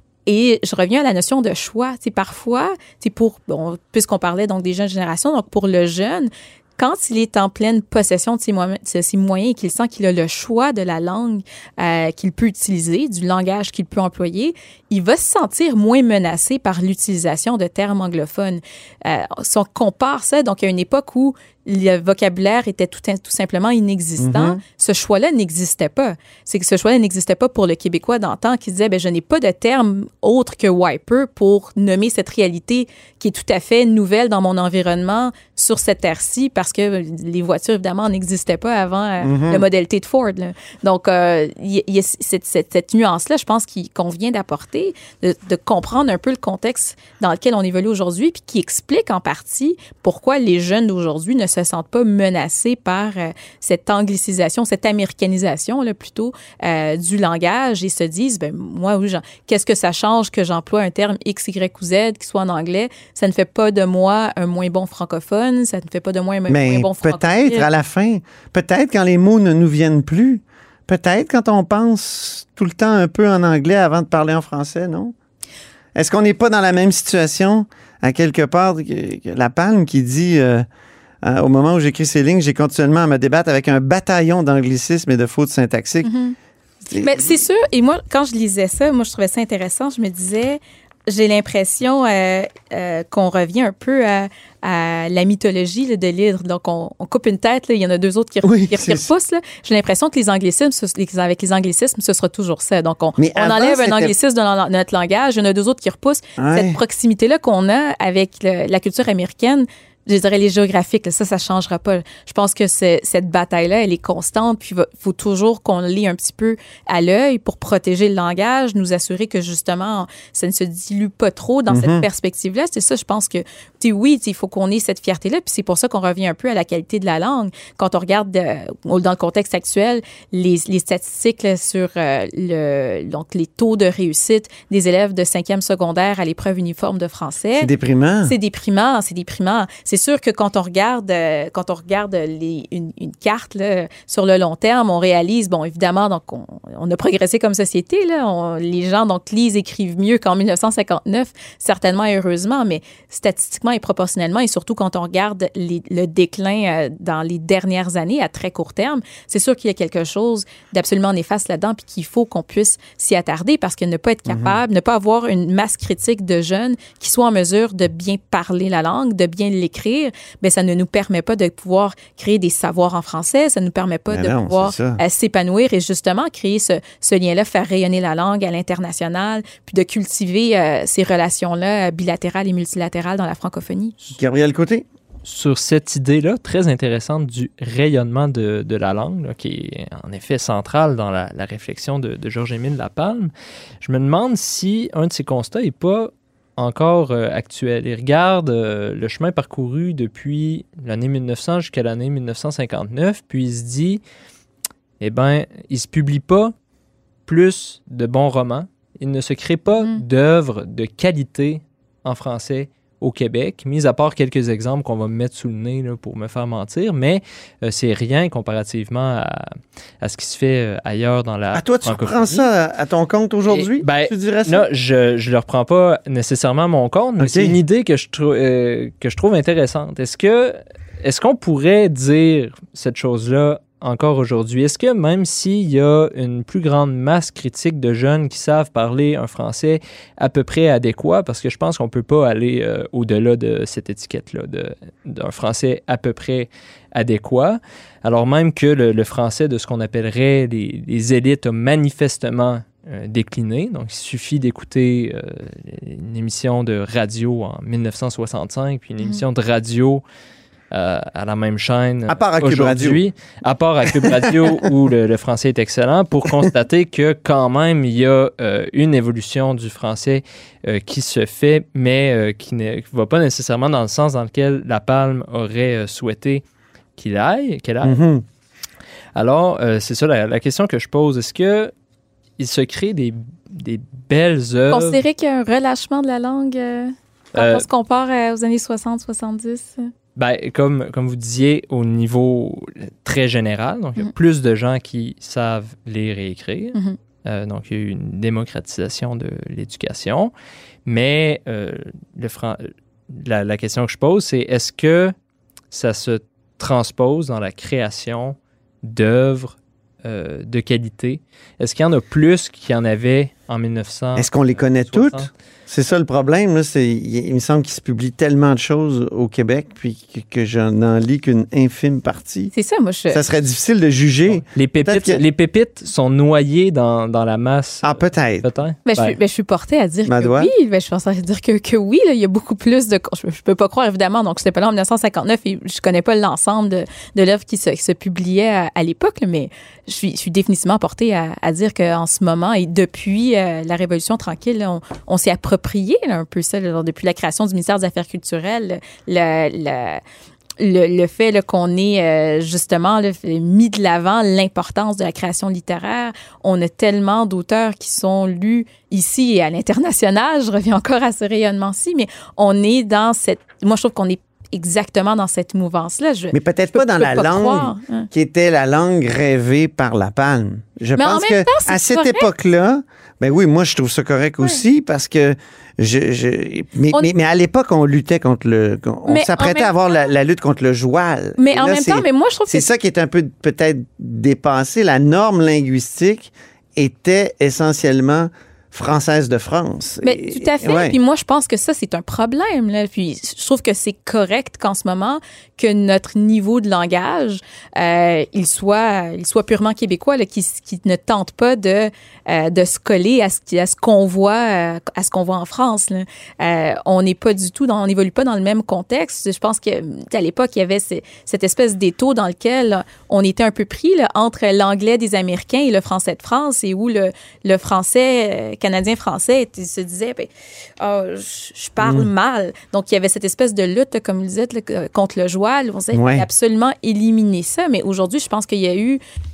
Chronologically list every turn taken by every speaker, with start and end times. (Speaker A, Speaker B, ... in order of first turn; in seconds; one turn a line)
Speaker A: 0.2-67.7
Speaker B: 24.2-24.6
Speaker B: 39.2-39.6
Speaker B: 66.5-75.1
Speaker B: 75.9-80.7
Speaker B: 81.2-86.1
Speaker A: 86.0-86.3
Speaker B: 86.9-87.4
Speaker A: 87.0-137.7
Speaker B: 98.4-99.1
Speaker B: 103.2-104.1
Speaker B: 106.4-106.8
Speaker B: 121.7-122.0
Speaker B: 137.6-138.3
Speaker A: 138.2-183.9
Speaker B: 164.2-164.6
Speaker B: 174.1-175.0
Speaker B: 184.2-184.8
Speaker C: 185.2-204.0
Speaker C: 205.0-206.5
Speaker C: 207.3-222.5
Speaker B: 221.5-224.6
Speaker C: 223.5-260.0
Speaker B: 227.2-227.6
Speaker C: 260.7-276.4
Speaker B: 262.1-263.0
Speaker B: 263.9-264.7
Speaker C: 277.0-278.0
Speaker B: 277.8-278.2
Speaker C: 279.1-281.7
Speaker C: 282.4-285.0
Speaker A: 284.7-289.9
Speaker C: 287.3-287.6
Speaker C: 290.1-300.3
Speaker C: 300.9-305.1
Speaker C: 305.7-315.3
Speaker B: 314.1-322.5
Speaker A: 322.5-323.2
Speaker B: 323.1-325.2
Speaker C: 324.5-329.1
Speaker B: 327.8-328.4
Speaker A: 328.9-350.0
Speaker B: 330.1-330.5
Speaker A: 350.6-368.1
Speaker B: 366.3-390.9
Speaker A: 371.0-372.3
Speaker A: 379.1-379.7
Speaker A: 381.4-382.7
Speaker A: 390.0-420.3
Speaker A: 420.8-429.0
Speaker B: 421.8-422.1
Speaker B: 425.9-426.2